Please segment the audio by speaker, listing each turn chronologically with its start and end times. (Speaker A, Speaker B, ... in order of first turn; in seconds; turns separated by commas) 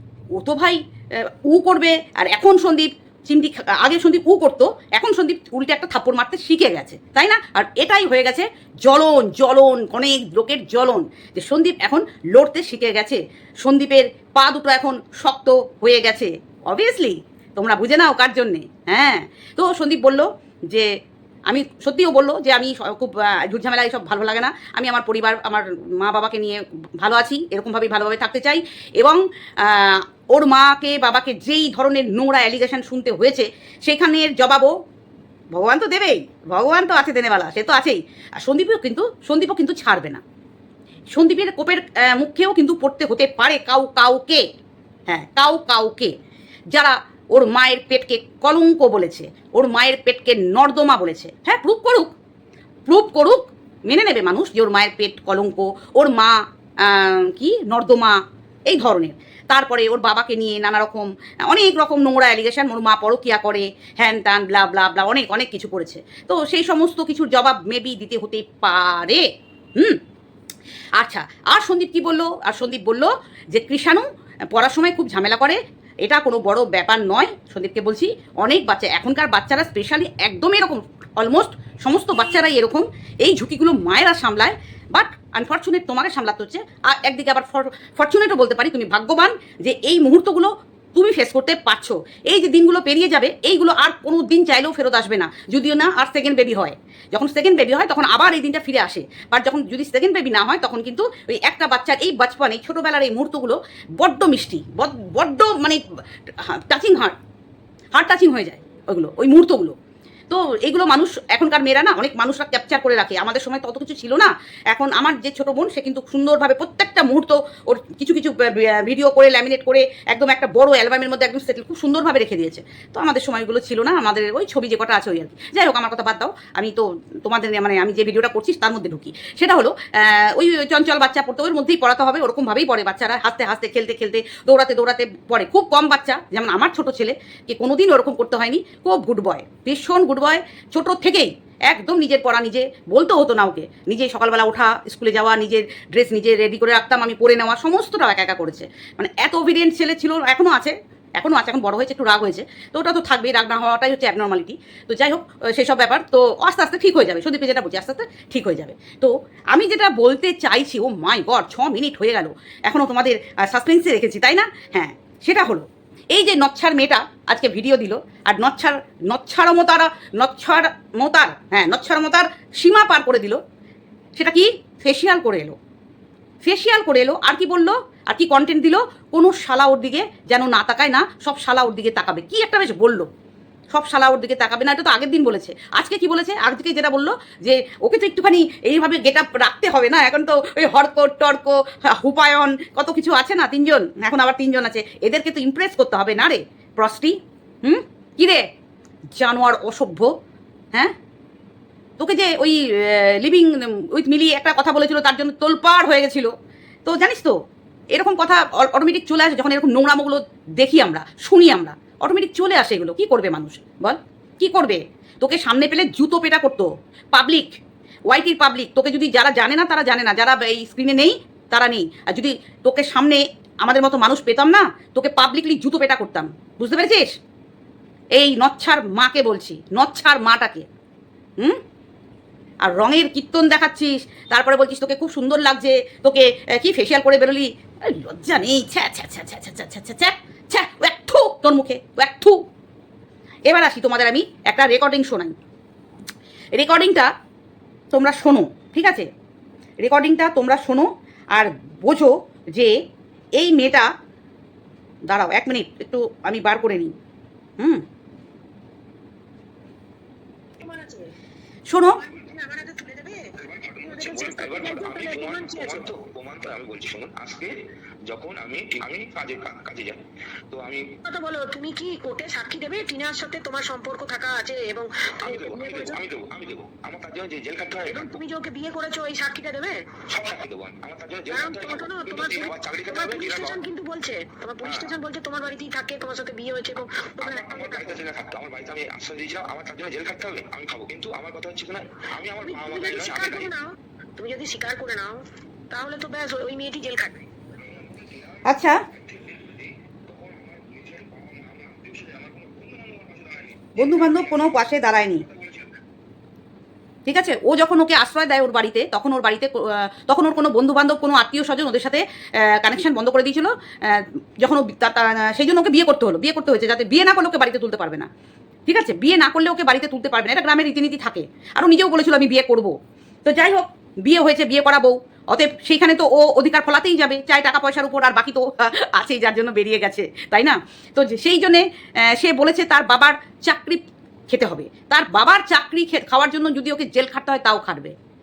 Speaker A: 0.3-20.9, Speaker A: 21.5-34.7, Speaker A: 35.5-40.2, Speaker A: 41.1-44.4, Speaker A: 45.1-46.1, Speaker A: 46.7-52.1, Speaker A: 52.9-69.2, Speaker A: 71.0-105.8, Speaker A: 106.4-107.1, Speaker A: 107.9-109.7, Speaker A: 110.3-173.4, Speaker A: 174.2-175.5, Speaker A: 176.4-183.1, Speaker A: 183.7-198.4, Speaker A: 199.2-200.1, Speaker A: 202.0-206.3, Speaker A: 206.8-207.3, Speaker A: 207.9-217.6, Speaker A: 218.1-227.1, Speaker A: 228.1-230.7, Speaker A: 232.6-242.4, Speaker A: 243.4-245.3, Speaker A: 246.5-247.1, Speaker A: 247.9-249.1, Speaker A: 249.8-252.8, Speaker A: 253.4-253.9, Speaker A: 255.1-256.9, Speaker A: 257.6-257.8, Speaker B: 260.6-261.1, Speaker A: 261.7-262.0, Speaker B: 262.0-265.9, Speaker C: 263.4-271.0, Speaker B: 271.0-276.0, Speaker C: 275.2-278.2, Speaker B: 277.9-279.8, Speaker C: 280.1-283.7, Speaker B: 281.3-287.9, Speaker C: 284.6-285.0, Speaker C: 287.2-293.5, Speaker B: 292.4-297.2, Speaker C: 297.6-304.5, Speaker A: 298.4-298.8, Speaker A: 303.8-305.2, Speaker C: 305.2-305.7, Speaker A: 307.1-318.1, Speaker A: 318.7-337.9